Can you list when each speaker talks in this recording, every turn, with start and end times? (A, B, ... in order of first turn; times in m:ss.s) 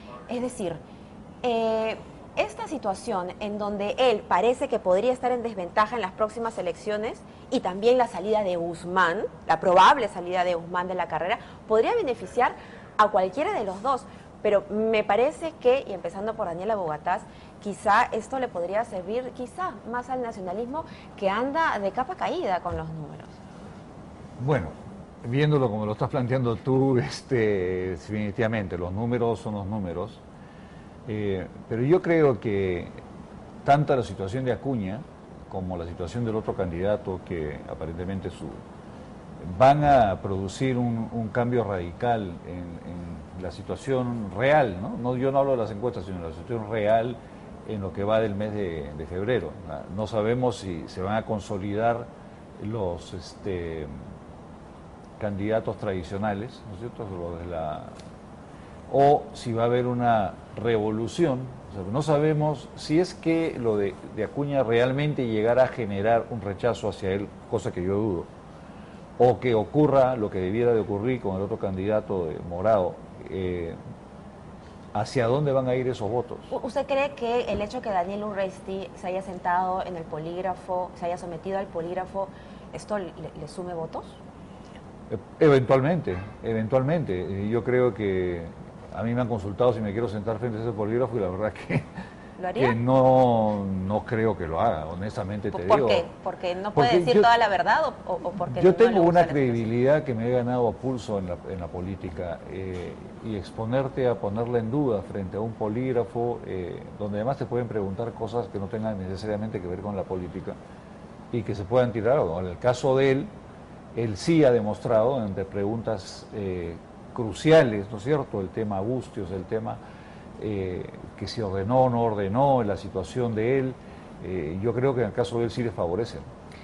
0:00.3-0:00.8 A
0:01.4-0:23.4 A
0:24.4-0:30.2 B
0:31.1-0:33.0 B
0:33.6-0:38.6 B
0:39.4-0:53.9 B
0:55.2-0:58.0 B
0:58.9-1:08.3 B
1:09.2-1:13.8 B
1:14.9-1:16.5 B
1:16.5-1:24.2 A
1:25.1-1:31.9 B
1:32.4-1:32.8 A
1:32.6-1:36.1 B
1:35.5-1:39.7 A
1:36.7-1:37.3 B
1:38.5-1:50.6 B
1:51.3-1:53.3 B
1:53.9-1:59.8 B
2:00.4-2:06.3 B